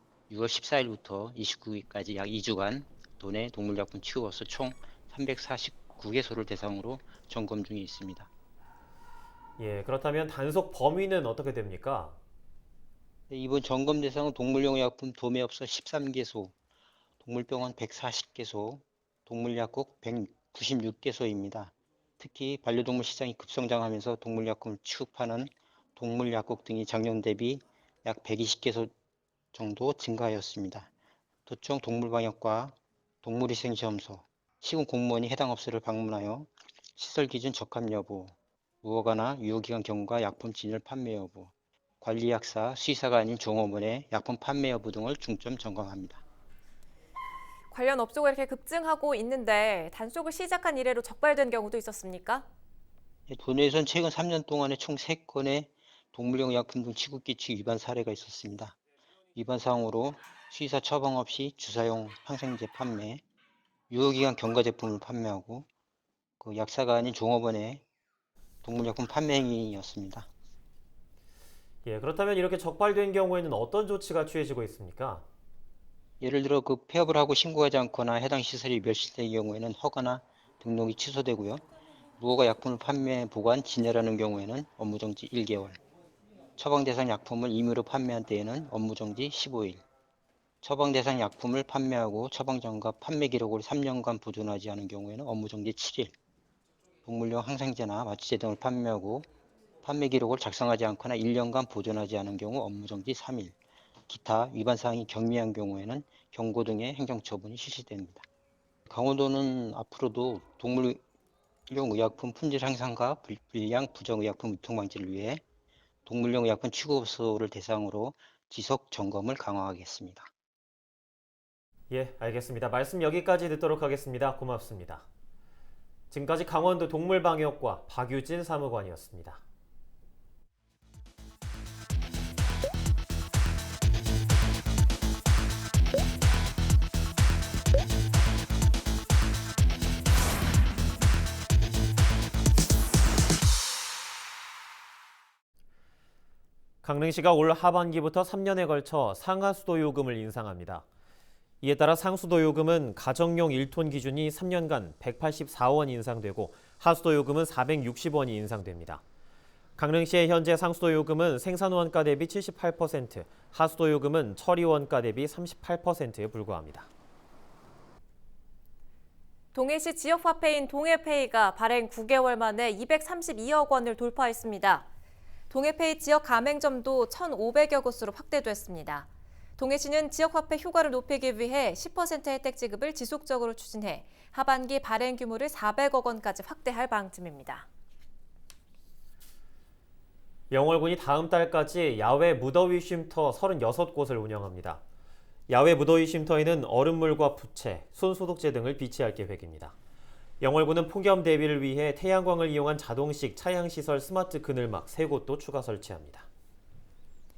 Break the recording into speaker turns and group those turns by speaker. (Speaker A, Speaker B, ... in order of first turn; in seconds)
Speaker A: 0.3-8.3, 13.3-16.5, 17.2-28.9, 29.5-30.9, 31.5-46.2, 53.3-58.8, 59.4-63.2, 63.9-65.7, 66.4-67.8, 68.6-70.3, 76.2-81.6, 82.2-85.8, 86.6-89.8, 90.6-96.1, 97.0-99.3, 99.8-103.5, 104.1-108.3, 108.9-111.0, 111.7-115.4, 116.1-120.3
Speaker B: 9.6-12.2, 71.8-75.2, 121.9-125.1, 126.1-129.4, 146.8-150.8, 151.6-159.0, 159.8-166.9, 190.5-194.8, 195.5-199.8, 200.4-206.3
Speaker C: 47.7-52.5, 169.5-174.9, 175.5-187.7